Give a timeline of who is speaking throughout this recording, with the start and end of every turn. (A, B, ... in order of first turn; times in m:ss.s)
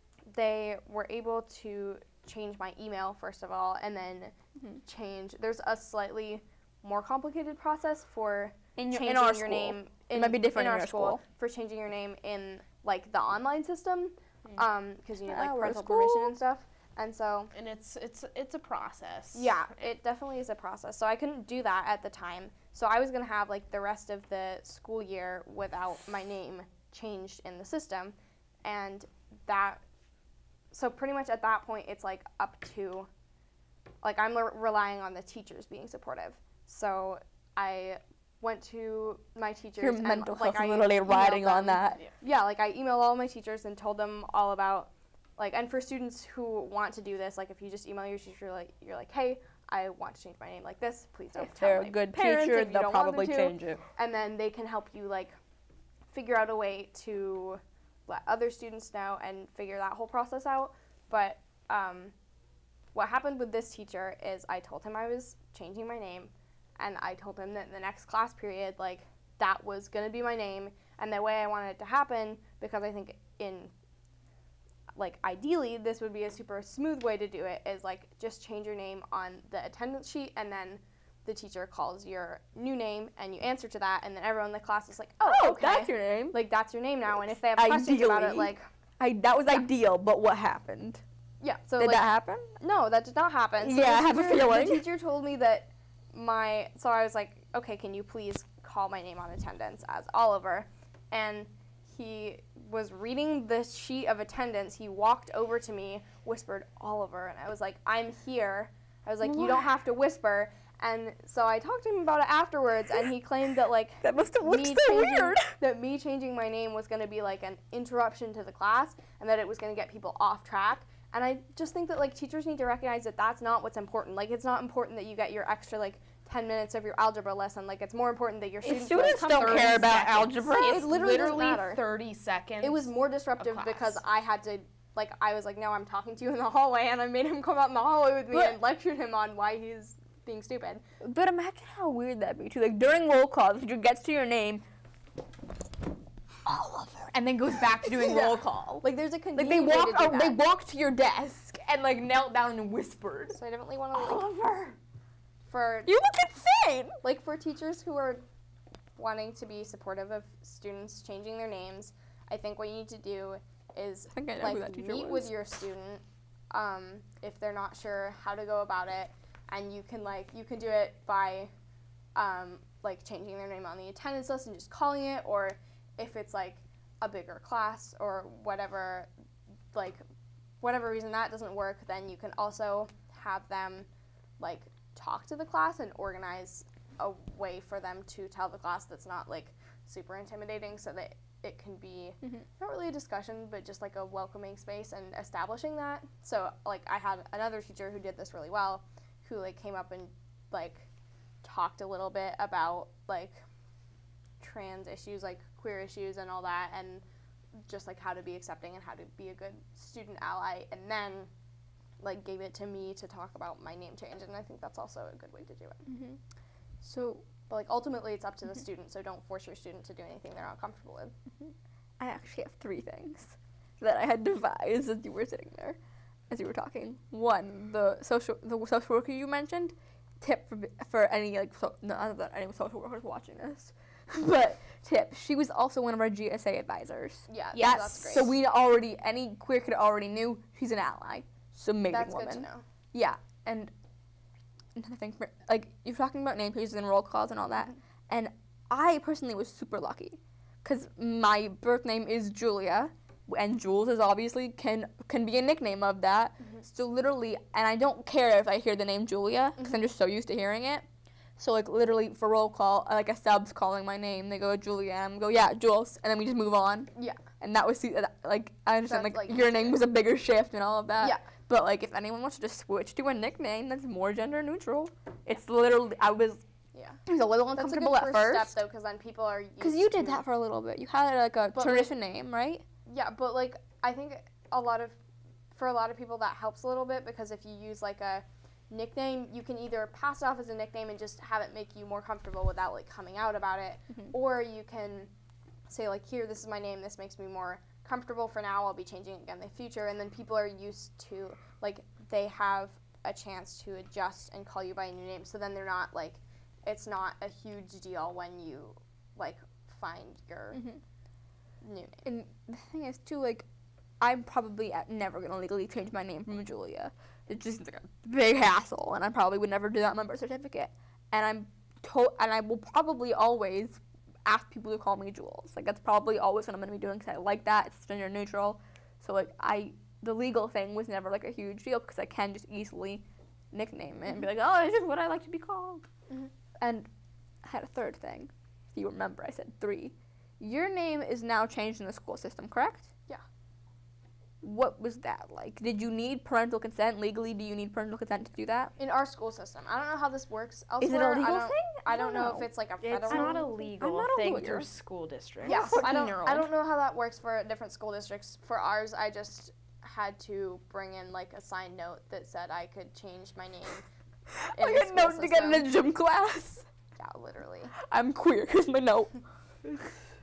0:00.3-0:17.5 A
0:08.8-0:11.2 B
0:15.3-0:16.4 B
0:17.5-0:19.5 C
0:19.3-0:29.8 A
0:30.7-0:33.1 A
0:34.0-0:55.4 A
0:39.8-0:42.1 B
0:51.4-0:53.8 B
0:56.1-1:02.1 A
1:02.9-1:13.7 A
1:15.0-1:28.6 A
1:25.2-1:26.4 B
1:27.5-1:31.0 B
1:31.4-2:11.8 A
1:31.8-1:32.5 B
1:33.6-1:34.8 B
1:49.2-1:49.7 B
1:54.0-1:55.5 B
2:08.6-2:10.9 B
2:08.8-2:14.0 C
2:12.6-2:20.8 A
2:18.3-2:18.6 B
2:21.0-2:24.6 B
2:26.4-2:28.8 B
2:27.9-2:30.4 A
2:29.4-2:33.4 B
2:33.3-2:34.3 A
2:33.9-2:34.8 B
2:35.5-2:35.9 A
2:35.8-2:37.0 B
2:37.0-2:38.2 A
2:39.0-2:51.5 A
2:44.1-2:45.3 B
2:52.2-2:59.1 A
2:59.7-3:00.0 A
3:00.6-3:03.9 A
3:04.4-3:20.9 A
3:21.4-3:23.4 A
3:24.4-3:27.0 A
3:27.6-3:31.3 A
3:32.0-3:35.9 A
3:35.8-3:36.2 B
3:36.8-3:37.2 B
3:37.5-3:41.1 A
3:41.4-3:45.8 B
3:46.3-4:03.7 B
3:57.3-3:58.3 A
4:01.9-4:02.6 A
4:04.7-4:20.8 B
4:21.4-4:36.4 B
4:26.9-4:27.2 A
4:28.9-4:29.8 A
4:31.0-4:31.3 A
4:36.7-4:37.0 A
4:37.0-4:38.6 B
4:37.5-4:40.2 A
4:39.6-4:42.6 B
4:41.5-4:41.9 A
4:42.9-4:45.0 A
4:45.5-4:55.1 A
4:55.7-5:10.6 A
5:10.5-5:10.8 B
5:11.6-5:12.0 A
5:12.0-5:13.4 B
5:14.0-5:35.9 B
5:36.6-5:36.9 B
5:37.4-5:42.9 B
5:44.4-5:48.7 B
5:48.8-5:53.5 A
5:50.8-5:54.7 B
5:53.1-5:55.8 C
5:55.4-5:56.5 B
5:55.4-6:03.8 A
6:04.3-6:06.7 B
6:04.5-6:05.7 A
6:07.0-6:07.7 A
6:07.7-6:10.0 B